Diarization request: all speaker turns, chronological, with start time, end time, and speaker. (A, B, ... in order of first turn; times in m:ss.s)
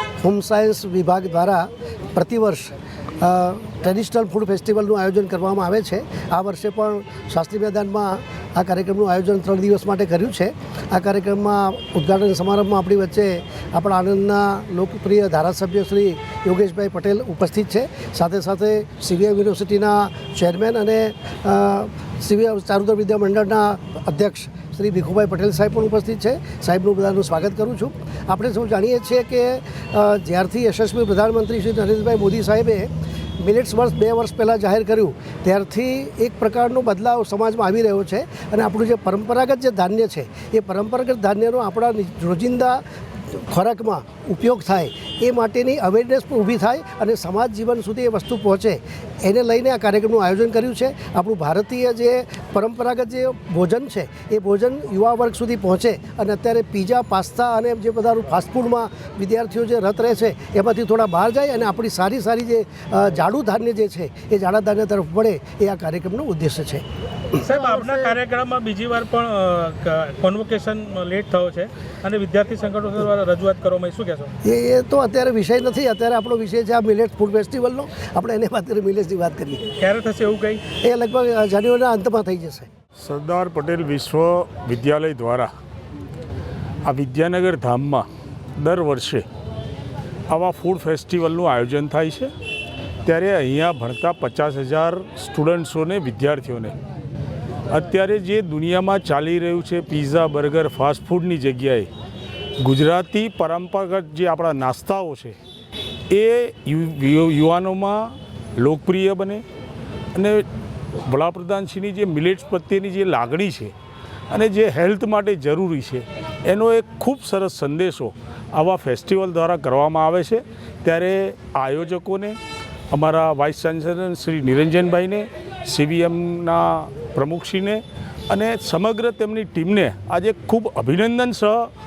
0:00.2-0:42.8 A
0:43.3-1:06.8 A
1:07.4-1:14.3 B
1:07.5-1:08.2 A
1:14.4-1:19.7 A
1:19.8-1:20.6 B
1:20.8-1:22.7 A
1:23.0-1:25.5 C
1:26.8-1:28.0 C
1:28.6-1:29.2 C
1:30.3-1:32.3 C
1:33.0-1:36.8 C
1:37.7-1:41.9 C
1:42.6-1:45.4 C
1:46.1-1:49.4 C
1:50.2-1:50.4 C
1:51.1-1:53.7 C
1:54.3-2:02.4 C
2:02.9-2:11.7 C